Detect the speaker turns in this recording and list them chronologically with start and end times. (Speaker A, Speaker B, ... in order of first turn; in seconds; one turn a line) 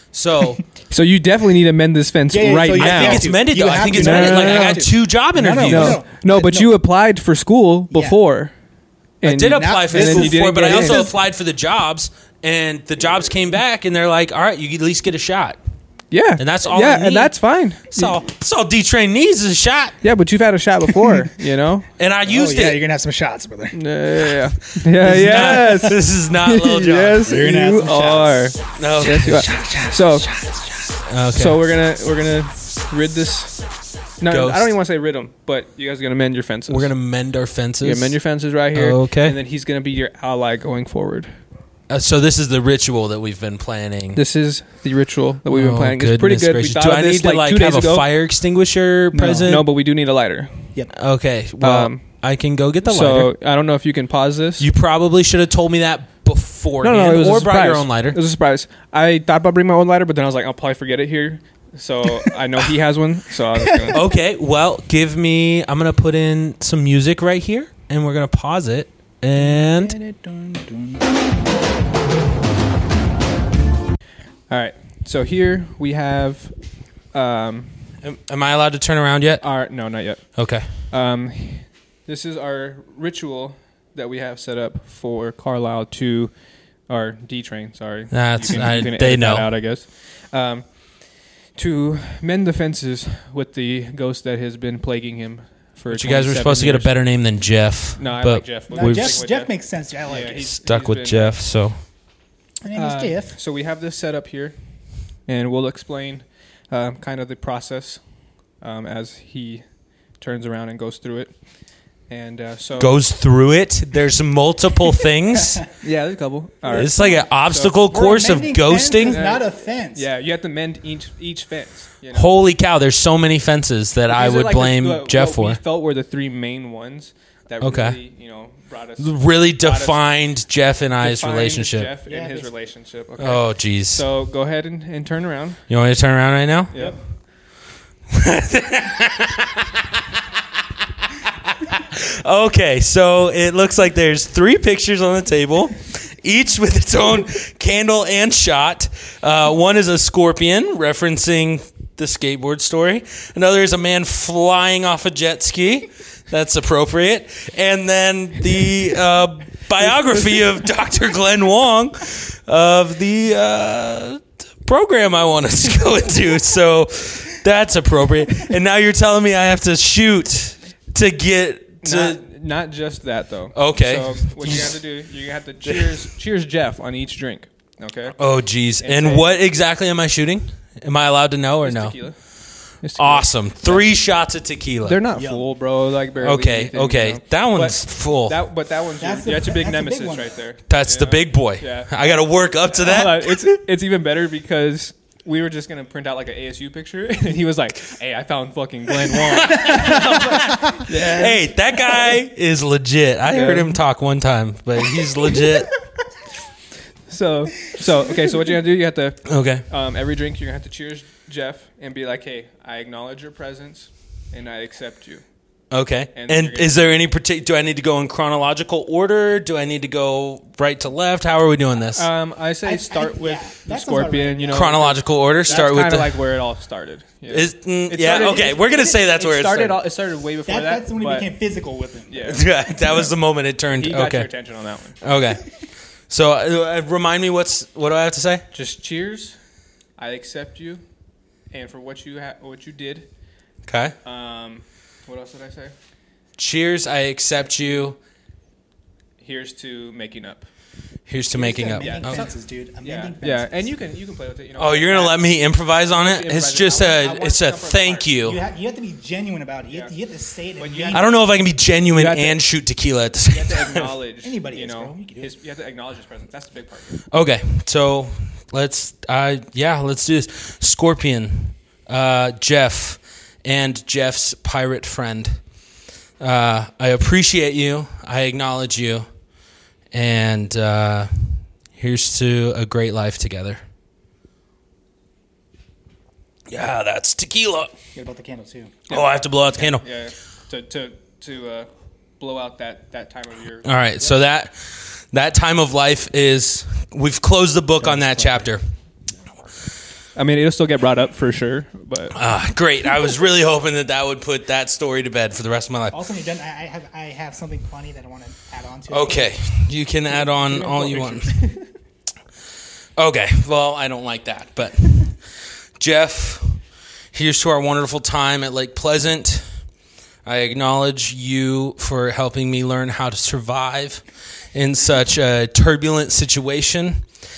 Speaker A: 0.1-0.6
Speaker B: 0.9-3.3
Speaker C: 2.3-6.7
Speaker A: 2.8-6.0
Speaker B: 3.8-4.9
Speaker B: 5.6-8.5
Speaker C: 7.9-8.2
Speaker B: 9.2-11.0
Speaker A: 9.2-15.6
Speaker C: 9.5-11.2
Speaker B: 16.1-18.1
Speaker A: 16.4-17.4
Speaker A: 17.9-20.0
Speaker B: 20.0-21.9
Speaker A: 22.0-22.8
Speaker C: 22.3-23.8
Speaker B: 23.7-30.3
Speaker A: 25.0-27.3
Speaker C: 25.0-26.0
Speaker C: 27.2-28.5
Speaker A: 28.8-29.5
Speaker C: 29.2-31.0
Speaker A: 31.1-31.6
Speaker B: 31.3-33.6
Speaker B: 34.2-36.9
Speaker A: 34.3-34.7
Speaker A: 36.7-38.2
Speaker B: 37.8-41.3
Speaker A: 38.7-39.4
Speaker A: 41.9-44.2
Speaker B: 44.1-48.1
Speaker A: 45.5-49.7
Speaker C: 49.1-49.5
Speaker B: 49.5-50.7
Speaker A: 50.9-53.3
Speaker B: 51.6-52.0
Speaker B: 52.9-54.7
Speaker A: 54.6-58.2
Speaker B: 56.8-64.0
Speaker A: 63.9-70.0
Speaker C: 69.3-71.2
Speaker B: 74.5-76.6
Speaker B: 77.1-77.8
Speaker A: 78.0-79.5
Speaker B: 79.4-86.3
Speaker A: 80.4-80.7
Speaker B: 86.9-90.7
Speaker A: 88.1-89.5
Speaker B: 91.5-96.9
Speaker A: 95.9-99.2
Speaker B: 98.0-99.5
Speaker C: 98.7-100.5
Speaker B: 100.0-101.4
Speaker A: 100.3-101.8
Speaker C: 102.6-103.4
Speaker B: 102.7-104.6
Speaker B: 105.3-108.0
Speaker B: 108.6-109.7
Speaker B: 110.2-111.3
Speaker B: 112.1-113.0
Speaker A: 112.8-115.7
Speaker B: 115.8-117.8
Speaker A: 116.7-119.2
Speaker C: 117.9-120.0
Speaker B: 119.0-122.3
Speaker A: 122.1-125.6
Speaker B: 124.1-130.0
Speaker A: 127.6-128.0
Speaker A: 129.0-131.9
Speaker B: 131.0-135.6
Speaker C: 132.1-132.5
Speaker A: 133.2-134.1
Speaker A: 135.7-136.8
Speaker B: 136.7-137.0
Speaker A: 138.1-139.9
Speaker A: 141.5-172.2
Speaker B: 171.8-178.2
Speaker A: 173.6-174.8
Speaker A: 175.7-176.0
Speaker A: 178.2-182.0
Speaker B: 178.8-179.3
Speaker B: 181.6-182.2
Speaker B: 182.8-183.9
Speaker A: 182.9-185.0
Speaker B: 184.8-191.9
Speaker C: 185.1-185.4
Speaker A: 186.2-188.4
Speaker C: 189.0-190.4
Speaker A: 190.7-193.6
Speaker B: 192.7-202.1
Speaker A: 199.3-205.8
Speaker B: 203.3-203.8
Speaker B: 207.1-215.2
Speaker A: 209.2-209.7
Speaker A: 215.7-222.1
Speaker B: 216.1-216.8
Speaker B: 221.9-231.3
Speaker C: 222.6-224.9
Speaker A: 224.5-226.2
Speaker A: 227.3-229.8
Speaker C: 230.5-232.3
Speaker B: 232.1-232.5
Speaker A: 232.3-234.3
Speaker B: 233.8-235.0
Speaker A: 235.0-235.6
Speaker A: 236.1-238.5
Speaker B: 238.5-239.4
Speaker B: 240.0-240.8
Speaker B: 241.5-243.1
Speaker A: 243.7-243.9
Speaker B: 244.0-245.8
Speaker A: 246.4-248.0
Speaker B: 249.2-250.5
Speaker A: 251.1-252.3
Speaker C: 251.3-253.7
Speaker B: 251.8-252.3
Speaker B: 252.8-258.1
Speaker A: 254.6-258.4
Speaker C: 258.2-261.1
Speaker B: 260.6-261.2
Speaker A: 260.9-263.9
Speaker B: 261.9-262.4
Speaker B: 263.3-267.0
Speaker C: 264.2-265.3
Speaker A: 267.1-275.4
Speaker A: 276.2-279.1
Speaker A: 279.9-283.6
Speaker A: 286.5-287.7
Speaker C: 287.9-288.8
Speaker A: 288.9-289.8
Speaker B: 288.9-293.7
Speaker A: 293.6-298.6
Speaker C: 297.8-298.5
Speaker B: 300.1-302.1
Speaker A: 302.1-306.0
Speaker C: 305.9-309.3
Speaker A: 308.9-311.4
Speaker B: 310.2-311.7
Speaker A: 313.0-315.2
Speaker A: 315.8-316.6
Speaker A: 317.1-319.5
Speaker A: 320.2-327.0